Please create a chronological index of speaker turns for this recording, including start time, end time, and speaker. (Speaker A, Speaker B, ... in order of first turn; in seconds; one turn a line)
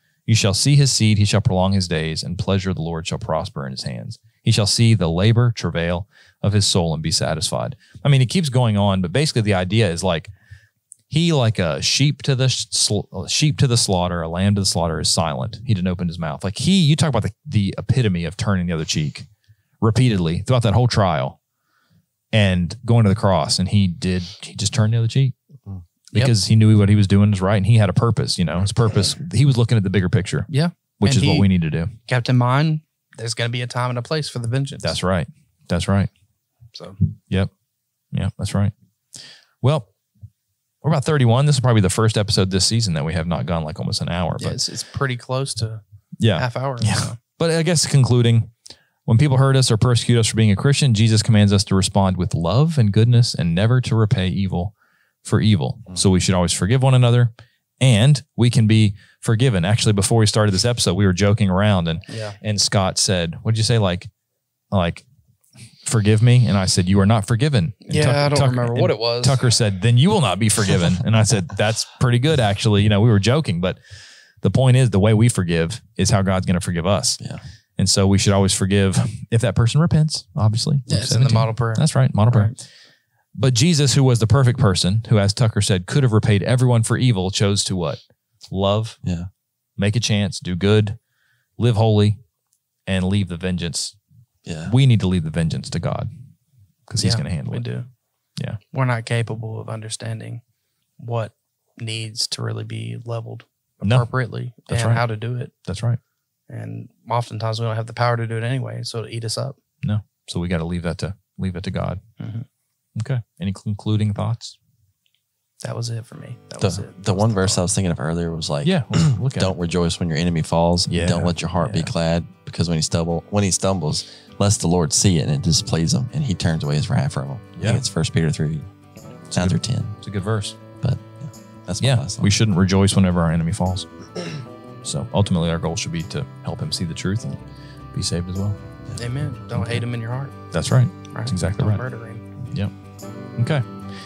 Speaker A: 0.3-10.3
Speaker A: 11.1-19.3
Speaker A: 19.8-21.4
Speaker A: 22.3-25.3
Speaker A: 26.1-31.9
Speaker B: 30.5-31.5
Speaker B: 32.0-34.9
Speaker A: 34.8-36.1
Speaker A: 38.1-38.7
Speaker A: 39.6-39.9
Speaker A: 40.8-44.6
Speaker B: 44.4-45.8
Speaker A: 46.2-48.5
Speaker B: 46.4-47.2
Speaker A: 49.1-64.1
Speaker B: 62.1-62.4
Speaker A: 64.7-65.0
Speaker A: 65.8-73.8
Speaker B: 67.9-69.4
Speaker A: 74.4-77.2
Speaker A: 77.8-82.5
Speaker B: 80.9-82.5
Speaker A: 83.3-89.0
Speaker C: 89.0-89.3
Speaker A: 89.8-91.0
Speaker A: 91.6-92.2
Speaker A: 92.8-94.0
Speaker C: 94.4-94.7
Speaker A: 94.7-96.1
Speaker A: 96.9-97.6
Speaker B: 97.0-97.9
Speaker B: 98.7-100.4
Speaker B: 101.0-105.5
Speaker A: 103.8-104.1
Speaker A: 104.7-105.0
Speaker A: 105.7-106.0
Speaker B: 106.5-109.5
Speaker A: 109.8-112.0
Speaker B: 112.2-112.5
Speaker A: 113.0-114.5
Speaker B: 115.6-117.6
Speaker C: 116.6-128.7
Speaker A: 118.6-119.5
Speaker A: 120.9-121.9
Speaker A: 127.6-127.8
Speaker A: 129.3-130.6
Speaker C: 129.3-129.9
Speaker C: 130.8-132.3
Speaker A: 131.8-133.9
Speaker A: 134.8-137.4
Speaker A: 137.9-138.6
Speaker B: 139.0-140.3
Speaker A: 140.5-141.8
Speaker B: 141.1-142.2
Speaker A: 143.4-143.6